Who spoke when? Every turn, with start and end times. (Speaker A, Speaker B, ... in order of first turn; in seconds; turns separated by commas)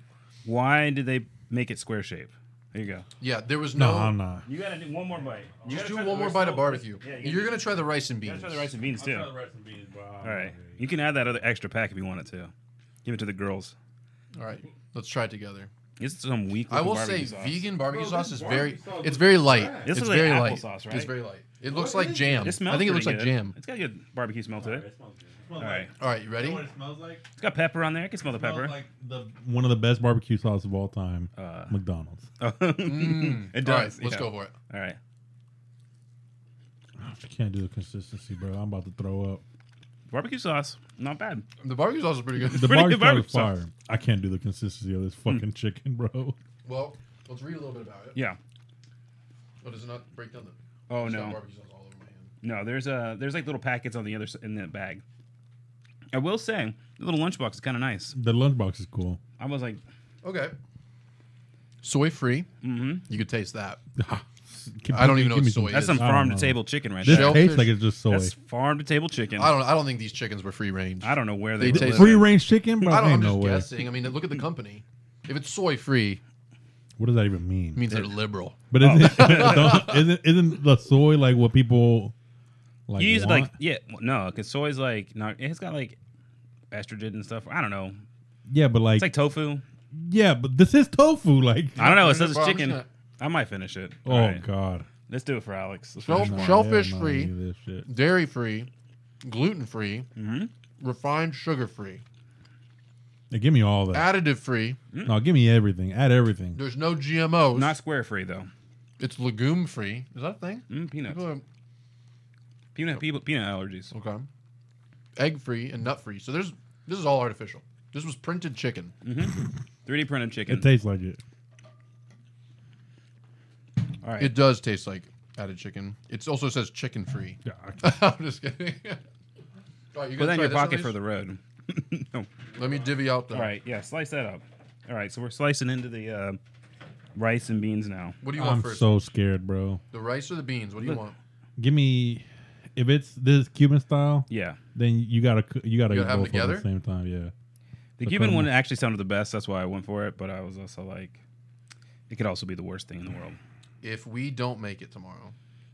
Speaker A: 0.4-3.0, Speaker B: 3.2-4.1, Speaker C: 3.7-4.4, Speaker A: 4.5-7.7, Speaker B: 5.6-8.7, Speaker A: 8.2-9.3, Speaker C: 8.9-10.9, Speaker A: 10.2-12.5, Speaker A: 13.0-13.7, Speaker B: 14.3-15.7, Speaker A: 16.0-17.6, Speaker B: 16.7-23.6, Speaker C: 17.8-20.0, Speaker A: 19.8-21.1, Speaker C: 21.7-22.6, Speaker A: 22.4-24.8, Speaker C: 24.6-27.2, Speaker A: 25.6-25.9, Speaker B: 25.9-26.6, Speaker A: 27.4-28.7, Speaker C: 28.2-32.2, Speaker A: 31.4-31.8, Speaker A: 32.4-35.0, Speaker B: 32.8-34.5, Speaker C: 37.0-39.4, Speaker A: 40.1-41.5, Speaker B: 41.6-42.8, Speaker A: 42.5-43.5, Speaker C: 42.5-46.4, Speaker B: 46.6-48.2, Speaker B: 49.6-52.3, Speaker A: 50.9-51.4, Speaker A: 52.4-55.0, Speaker A: 56.1-58.1, Speaker C: 58.1-59.2, Speaker A: 59.4-59.8, Speaker B: 60.2-60.5, Speaker B: 61.8-62.5, Speaker A: 62.6-63.0, Speaker B: 63.1-63.8, Speaker C: 64.0-68.3, Speaker B: 64.9-66.1, Speaker A: 65.7-67.5, Speaker B: 67.0-67.7, Speaker A: 68.1-69.6, Speaker B: 69.4-72.3, Speaker A: 71.0-72.3, Speaker C: 71.6-73.8, Speaker B: 72.8-76.2, Speaker C: 77.0-77.8, Speaker B: 77.7-80.1, Speaker C: 78.7-82.1, Speaker A: 78.8-79.8, Speaker C: 82.9-83.5, Speaker A: 83.0-86.0, Speaker A: 86.7-88.0, Speaker C: 88.5-89.1, Speaker A: 89.0-89.6, Speaker C: 89.9-91.8, Speaker B: 91.8-92.9, Speaker A: 91.8-94.4, Speaker C: 94.0-94.9, Speaker A: 95.1-96.6, Speaker B: 96.0-97.3, Speaker C: 96.1-97.9, Speaker B: 97.8-98.7, Speaker B: 99.2-100.0, Speaker A: 100.2-100.5, Speaker B: 100.8-102.0, Speaker C: 103.3-104.1, Speaker B: 103.9-104.8, Speaker A: 104.9-105.2, Speaker C: 105.0-106.6, Speaker B: 106.5-107.8, Speaker A: 107.5-108.5, Speaker B: 109.0-111.4, Speaker A: 110.7-111.2, Speaker A: 112.7-113.9, Speaker B: 113.9-114.2, Speaker B: 115.2-118.9, Speaker A: 119.0-120.7, Speaker C: 120.5-121.2, Speaker A: 124.0-124.4, Speaker B: 124.2-129.0, Speaker C: 127.5-127.9, Speaker B: 129.9-130.9, Speaker A: 130.2-132.3, Speaker B: 132.5-133.5, Speaker A: 133.3-136.4, Speaker A: 137.2-138.2, Speaker B: 138.2-139.1, Speaker C: 138.3-139.8, Speaker B: 139.9-141.2, Speaker C: 141.6-142.2, Speaker C: 142.8-147.3, Speaker A: 144.3-144.6, Speaker B: 145.9-146.7, Speaker A: 148.0-151.2, Speaker C: 148.0-148.5, Speaker A: 152.1-153.4, Speaker B: 153.8-155.3